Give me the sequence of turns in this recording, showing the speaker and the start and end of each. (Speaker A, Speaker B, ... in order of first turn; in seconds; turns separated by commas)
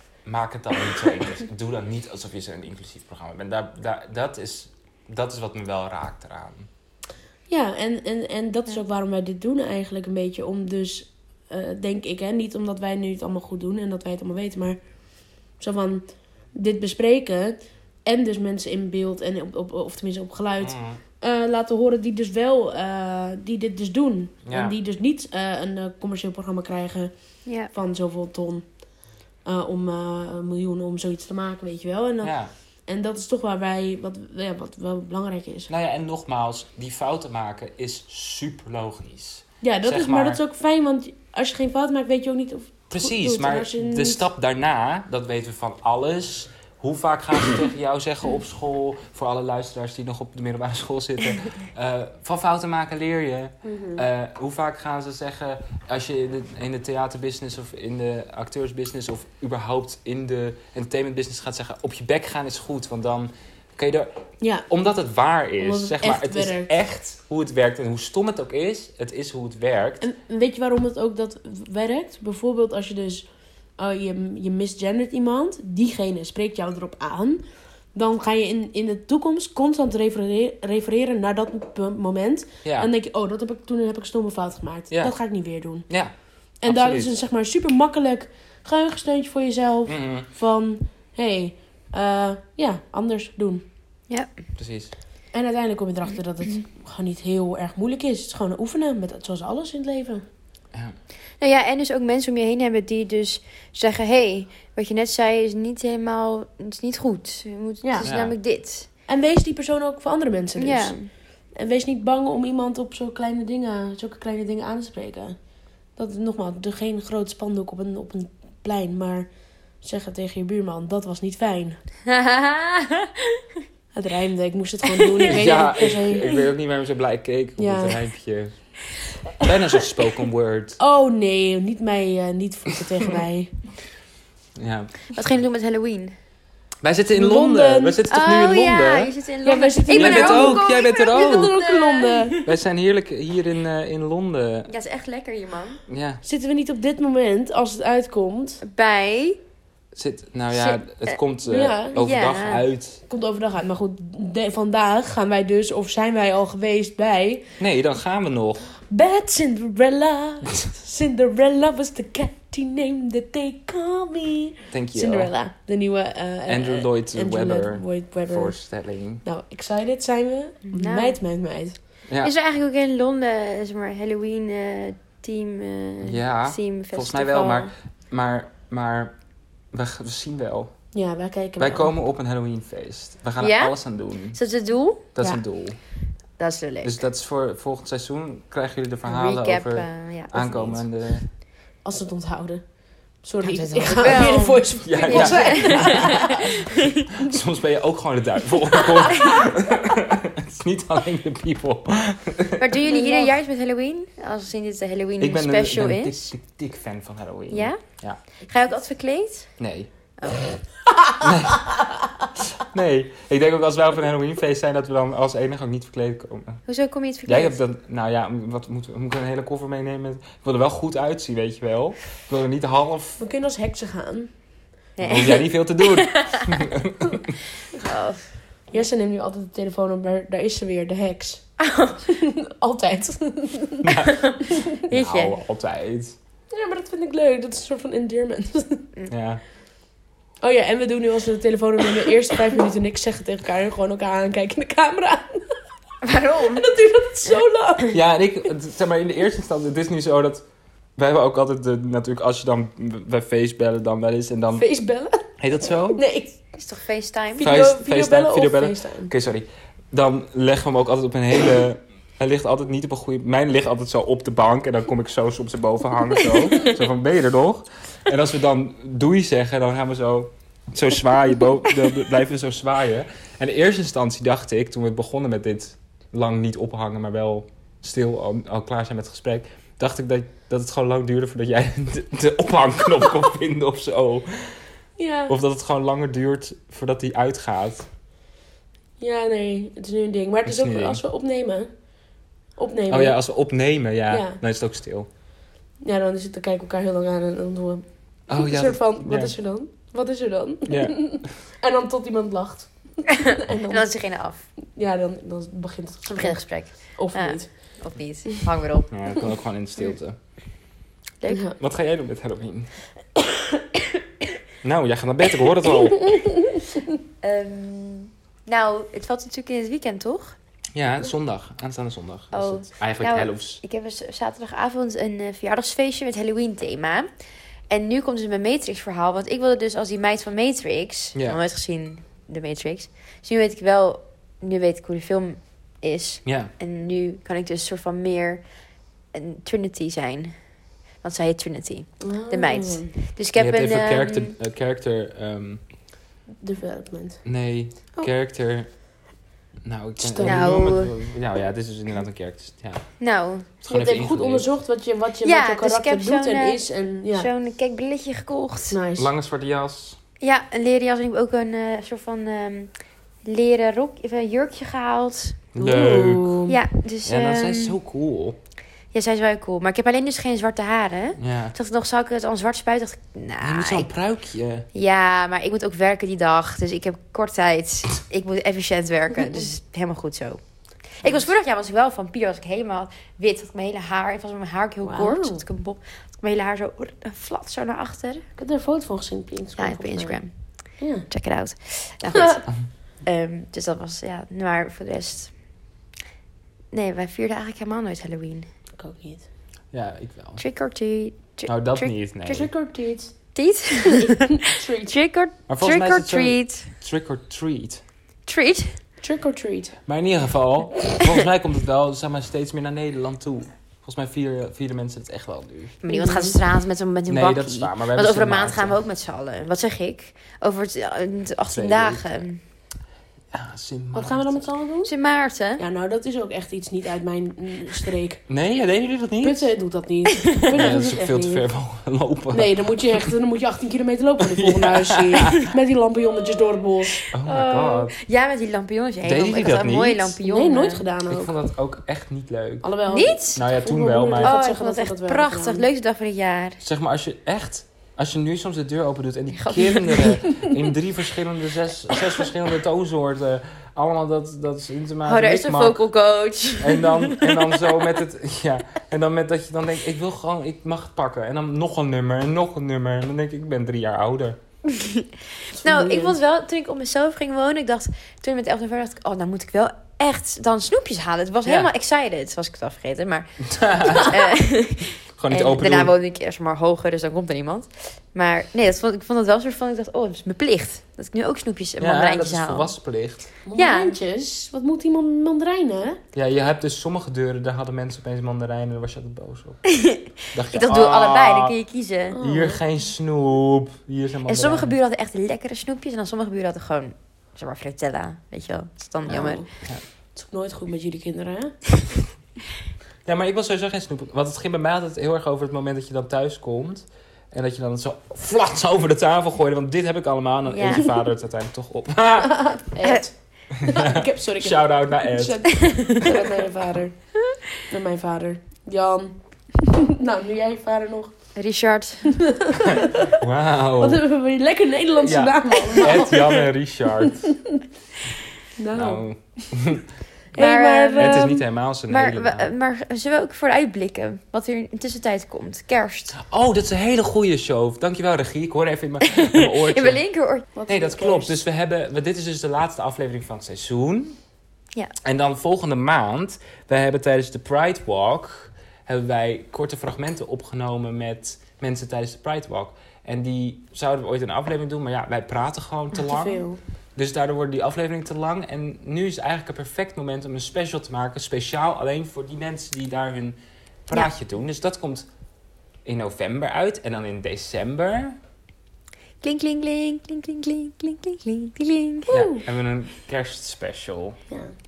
Speaker A: 0.2-6.7, Speaker B: 7.5-14.8, Speaker B: 15.6-27.1, Speaker A: 20.6-21.0, Speaker A: 24.4-24.8, Speaker B: 27.6-28.7, Speaker B: 29.4-32.4, Speaker A: 32.2-32.5, Speaker B: 32.9-35.7, Speaker A: 35.7-40.4, Speaker B: 39.6-44.2, Speaker A: 42.9-64.1, Speaker B: 53.6-54.0, Speaker B: 64.4-64.7, Speaker A: 64.7-70.0, Speaker B: 65.6-66.7, Speaker B: 70.0-73.3, Speaker B: 73.8-77.4, Speaker B: 78.0-85.9, Speaker A: 82.6-82.9, Speaker A: 84.9-85.2, Speaker B: 86.6-93.7, Speaker A: 86.7-87.1, Speaker A: 89.9-90.3, Speaker A: 94.6-94.9, Speaker B: 95.3-100.2, Speaker C: 101.4-108.9, Speaker B: 107.8-108.1, Speaker A: 108.0-108.4, Speaker B: 109.1-111.0, Speaker C: 110.6-111.1, Speaker B: 111.5-115.4, Speaker B: 116.0-119.3, Speaker B: 119.8-121.8, Speaker C: 122.1-123.4, Speaker B: 123.9-126.4, Speaker A: 125.3-128.7, Speaker B: 127.6-128.0, Speaker A: 129.4-130.8, Speaker B: 130.8-133.6, Speaker A: 134.6-135.1, Speaker C: 135.1-136.2, Speaker A: 136.8-139.1, Speaker B: 137.1-138.0, Speaker C: 138.1-142.6, Speaker B: 139.4-142.4, Speaker A: 139.9-141.5, Speaker A: 142.4-144.7, Speaker C: 144.7-145.8, Speaker A: 145.9-146.2, Speaker B: 146.2-148.6, Speaker C: 148.6-149.4, Speaker A: 149.9-153.0, Speaker C: 150.5-151.2, Speaker B: 151.5-152.0, Speaker C: 151.9-152.6, Speaker B: 153.1-157.5, Speaker A: 157.6-158.7, Speaker B: 158.9-168.6, Speaker A: 164.7-165.3, Speaker A: 166.5-169.2, Speaker B: 169.2-171.8, Speaker C: 170.7-171.2, Speaker C: 172.2-177.7, Speaker A: 176.0-179.2, Speaker A: 179.7-180.7, Speaker B: 180.9-181.9, Speaker A: 181.6-184.4, Speaker C: 183.4-185.1, Speaker A: 185.2-185.8, Speaker C: 186.4-187.0, Speaker A: 186.8-191.2, Speaker C: 189.1-190.9, Speaker B: 191.8-192.7, Speaker B: 193.2-196.6, Speaker C: 193.4-197.1, Speaker A: 194.8-196.3, Speaker A: 197.2-202.7, Speaker C: 198.8-199.4, Speaker C: 202.6-206.2, Speaker B: 202.9-203.3, Speaker A: 205.2-208.2, Speaker C: 207.5-207.8, Speaker C: 208.4-209.5, Speaker A: 209.6-209.9, Speaker C: 210.2-210.6, Speaker A: 211.2-211.8, Speaker A: 212.6-216.6, Speaker C: 216.7-217.6, Speaker A: 217.3-223.2, Speaker B: 223.2-224.3, Speaker C: 225.0-226.6, Speaker A: 225.0-227.4, Speaker C: 227.8-228.3, Speaker B: 228.7-231.4, Speaker C: 231.6-232.0, Speaker B: 232.1-233.9, Speaker A: 233.8-236.2, Speaker C: 234.1-235.4, Speaker B: 236.5-238.8, Speaker A: 239.1-239.4, Speaker B: 240.4-245.6, Speaker C: 246.0-246.7, Speaker B: 246.5-248.0, Speaker A: 247.9-250.4, Speaker A: 251.0-254.7, Speaker B: 254.5-255.3, Speaker A: 255.4-256.0, Speaker B: 255.9-256.4, Speaker C: 256.6-257.5, Speaker B: 257.4-259.1, Speaker A: 257.4-284.6, Speaker B: 285.0-285.3, Speaker A: 285.3-287.9, Speaker B: 289.0-291.7, Speaker A: 290.5-291.0, Speaker B: 292.6-293.2, Speaker A: 292.9-295.1, Speaker B: 294.1-294.4, Speaker B: 295.8-303.9, Speaker A: 298.3-299.4, Speaker A: 300.7-301.3, Speaker C: 303.1-304.5, Speaker B: 304.8-307.5, Speaker C: 306.2-308.9, Speaker A: 308.9-310.2, Speaker C: 311.2-311.5, Speaker B: 311.3-311.6, Speaker A: 311.6-312.7, Speaker B: 313.2-313.6, Speaker A: 314.6-316.2, Speaker B: 316.0-316.9, Speaker C: 317.2-320.4, Speaker A: 320.8-323.6, Speaker C: 322.3-327.1, Speaker C: 327.7-338.4, Speaker A: 336.2-336.5, Speaker C: 339.1-340.4, Speaker C: 341.0-344.3, Speaker B: 342.0-342.9, Speaker A: 343.4-345.6, Speaker B: 346.4-347.2, Speaker A: 347.2-348.8, Speaker A: 349.6-352.9, Speaker B: 350.0-350.6, Speaker C: 350.2-350.9, Speaker C: 353.0-353.5, Speaker A: 353.6-354.5, Speaker B: 353.7-357.3, Speaker C: 355.2-358.8, Speaker B: 358.7-359.1, Speaker A: 359.0-360.0, Speaker C: 360.2-362.7, Speaker C: 363.2-365.5, Speaker A: 365.5-368.4, Speaker B: 365.6-366.6, Speaker C: 366.5-367.8, Speaker C: 368.9-373.9, Speaker A: 371.2-371.6, Speaker A: 373.4-374.7, Speaker C: 374.7-388.2, Speaker B: 384.9-385.4, Speaker B: 388.4-390.2, Speaker C: 389.6-390.3, Speaker B: 390.8-391.1, Speaker C: 391.1-395.4, Speaker C: 396.7-398.5, Speaker B: 398.8-399.3, Speaker A: 399.7-400.4, Speaker C: 400.4-402.5, Speaker A: 401.5-402.5, Speaker B: 402.3-403.2, Speaker C: 403.3-406.7, Speaker B: 403.9-404.9, Speaker A: 405.5-407.8, Speaker C: 408.3-408.8, Speaker B: 409.0-409.8, Speaker A: 409.9-415.8, Speaker C: 415.8-422.4, Speaker B: 415.9-416.4, Speaker A: 417.1-418.8, Speaker A: 421.5-422.1, Speaker A: 423.3-424.5, Speaker B: 423.9-424.9, Speaker C: 424.9-425.6, Speaker B: 425.6-428.2, Speaker A: 428.3-429.5, Speaker B: 429.2-431.5, Speaker A: 430.6-433.1, Speaker B: 432.3-437.1, Speaker A: 434.3-435.5, Speaker A: 437.1-438.0, Speaker C: 437.2-440.9, Speaker A: 439.0-440.2, Speaker B: 440.2-441.3, Speaker A: 441.1-442.7, Speaker B: 442.6-445.6, Speaker C: 442.9-443.4, Speaker A: 443.3-444.3, Speaker C: 444.2-446.6, Speaker A: 446.6-455.8, Speaker C: 449.4-450.2, Speaker C: 455.1-457.5, Speaker A: 456.6-464.4, Speaker C: 464.7-465.1, Speaker B: 465.5-466.1, Speaker C: 465.6-482.7, Speaker A: 471.4-471.7, Speaker A: 473.5-474.2, Speaker A: 475.2-475.9, Speaker A: 481.8-483.3, Speaker B: 483.5-486.0, Speaker C: 483.6-483.9, Speaker A: 486.1-489.6, Speaker C: 489.7-492.2, Speaker A: 490.3-491.6, Speaker B: 492.1-492.6, Speaker A: 492.2-494.8, Speaker C: 494.3-499.4, Speaker B: 499.1-499.5, Speaker A: 499.1-499.8, Speaker B: 500.1-501.6, Speaker A: 503.1-512.6, Speaker C: 510.5-510.9, Speaker B: 512.2-517.0, Speaker A: 513.6-516.0, Speaker C: 515.6-516.0, Speaker B: 517.6-521.1, Speaker C: 521.4-522.2, Speaker B: 522.1-523.2, Speaker A: 522.6-524.0, Speaker B: 523.8-526.4, Speaker A: 525.0-527.4, Speaker B: 527.0-527.6, Speaker B: 528.6-529.5, Speaker A: 528.7-529.9, Speaker B: 530.3-531.4, Speaker C: 530.4-536.1, Speaker A: 531.0-532.5, Speaker A: 536.1-540.0, Speaker C: 539.1-540.5, Speaker B: 540.5-541.4, Speaker A: 540.7-544.2, Speaker A: 545.0-563.4, Speaker B: 556.0-556.6, Speaker A: 563.9-565.1, Speaker A: 565.9-568.2, Speaker C: 569.2-572.1, Speaker B: 572.1-572.4, Speaker A: 572.1-574.2